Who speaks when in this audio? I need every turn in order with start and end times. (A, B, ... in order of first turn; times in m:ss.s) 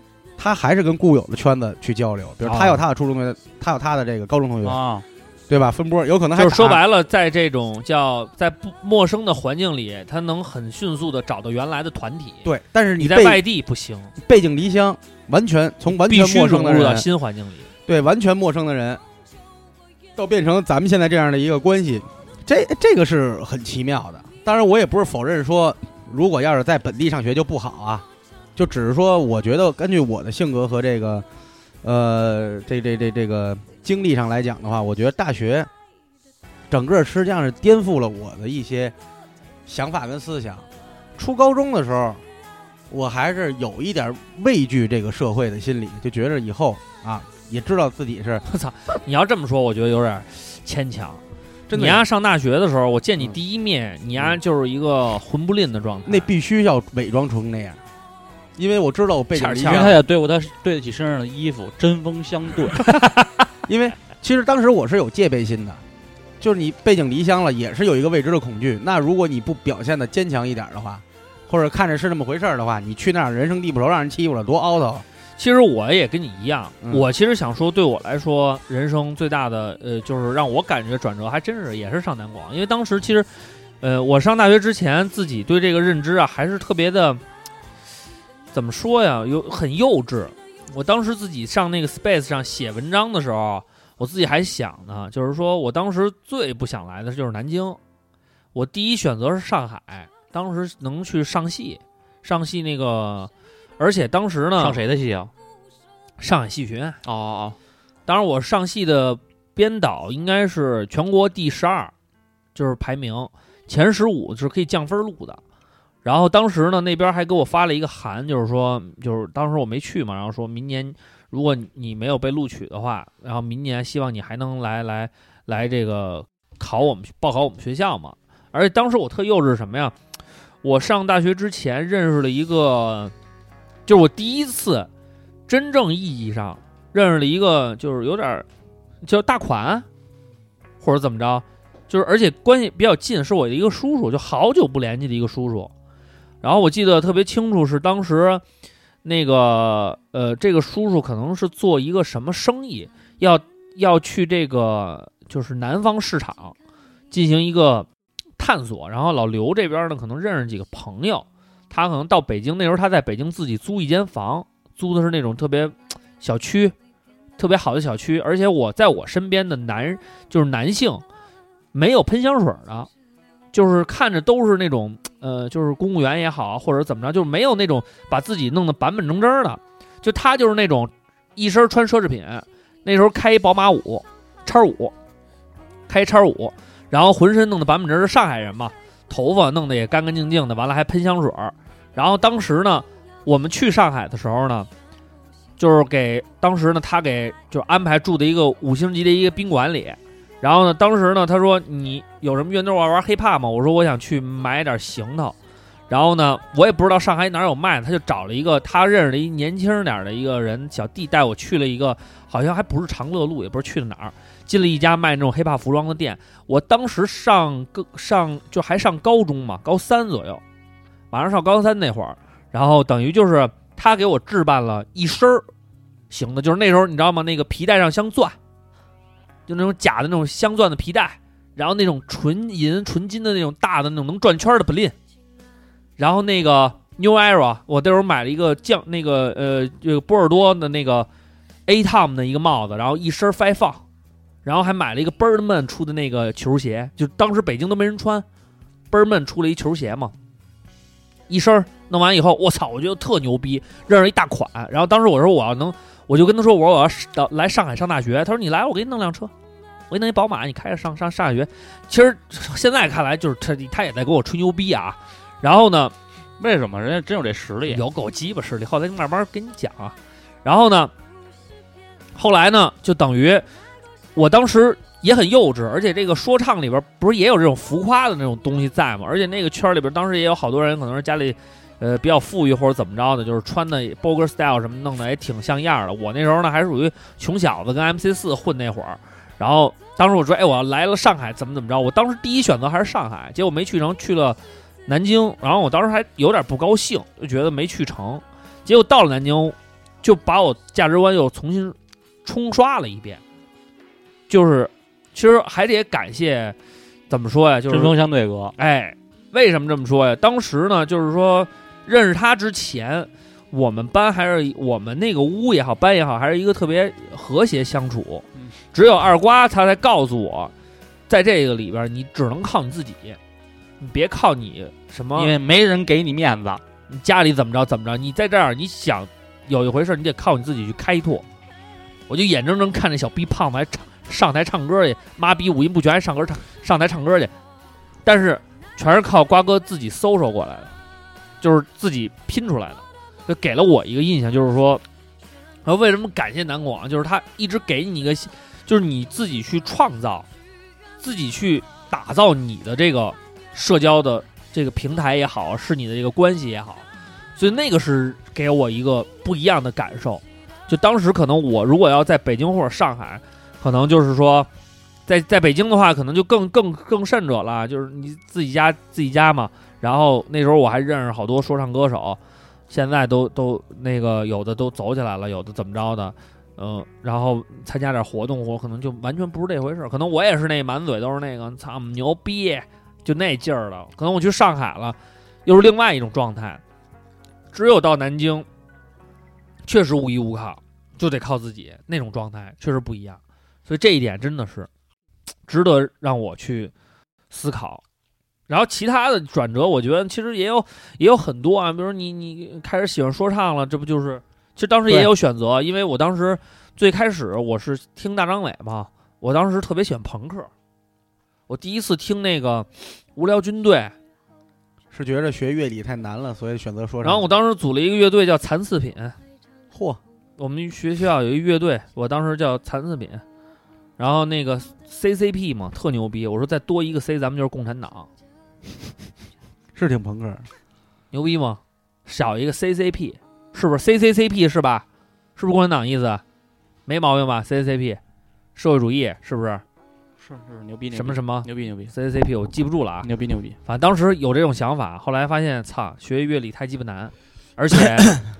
0:00.4-0:04.8 A
0:02.4-0:02.8 B
0:04.6-0:05.0 C
0:05.5-0:06.8 A
0:06.4-0:12.5 B
0:12.4-0:13.4 A
0:13.0-0:14.1 B
0:14.2-0:17.1 A
0:15.9-0:17.7 B
0:17.9-0:19.0 A
0:20.2-0:28.0 A
0:28.6-0:31.3 A
0:31.8-0:35.7 A
0:36.7-0:39.0 A
0:39.7-0:42.2 A
0:42.9-0:48.4 A
0:48.5-0:51.2 B
0:51.7-0:52.1 A
0:51.7-0:56.3 B
0:56.1-0:57.8 A
0:58.6-1:00.0 A
0:59.3-1:00.0 B
0:59.6-1:02.8 C
1:02.9-1:03.3 B
1:03.7-1:05.8 A
1:06.4-1:15.0 A
1:15.4-1:23.3 B
1:16.8-1:17.1 A
1:23.8-1:27.2 B
1:28.5-1:37.8 B
1:38.5-1:44.8 B
1:44.6-1:45.3 C
1:46.2-1:47.0 B
1:47.0-1:47.6 C
1:48.1-1:51.9 B
1:52.6-1:55.4 B
1:56.0-2:10.0 B
2:10.6-2:13.1 B
2:13.9-2:14.9 B
2:15.5-2:18.5 B
2:19.0-2:19.9 B
2:20.8-2:25.7 B
2:26.4-2:28.4 B
2:29.0-2:36.6 B
2:37.1-2:37.9 B
2:38.4-2:46.8 B
2:47.4-2:51.0 B
2:51.7-2:52.9 B
2:53.5-3:04.9 B
3:05.9-3:14.7 B
3:15.6-3:25.4 B
3:25.9-3:40.4 B
3:41.1-3:45.4 B
3:46.1-3:48.4 B
3:49.5-3:55.0 B
3:56.0-4:01.1 B
4:01.7-4:03.8 B
4:04.4-4:08.2 B
4:08.9-4:10.1 B
4:11.3-4:19.3 B
4:19.9-4:25.9 B
4:26.4-4:27.8 C
4:27.7-4:30.9 B
4:32.2-4:33.4 B
4:34.2-5:03.2 B
5:04.3-5:06.6 B
5:07.1-5:07.9 B
5:07.7-5:08.5 C
5:08.6-5:20.5 B
5:21.1-5:23.2 B
5:23.8-5:25.3 B
5:25.2-5:26.6 C
5:26.9-5:31.2 B
5:32.1-5:37.3 B
5:38.0-5:40.7 B
5:41.4-5:44.8 B
5:45.6-5:50.3 B
5:51.0-5:56.8 B
5:57.4-6:04.5 B
6:05.1-6:12.2 B
6:12.7-6:26.6 B
6:27.5-6:28.5 B
6:29.7-6:34.7 B
6:35.5-6:36.7 B
6:37.3-6:37.8 B
6:38.5-6:50.5 B
6:51.5-6:54.0 B
6:54.9-6:57.3 A
6:57.0-6:59.2 B
6:59.7-7:00.0 A
7:00.4-7:03.2 B
7:04.0-7:08.1 B
7:09.8-7:10.5 A
7:11.1-7:14.8 B
7:15.4-7:16.2 B
7:16.9-7:18.0 B
7:18.6-7:19.6 B
7:20.2-7:21.9 C
7:20.9-7:23.1 B
7:23.0-7:23.6 C
7:23.7-7:28.2 B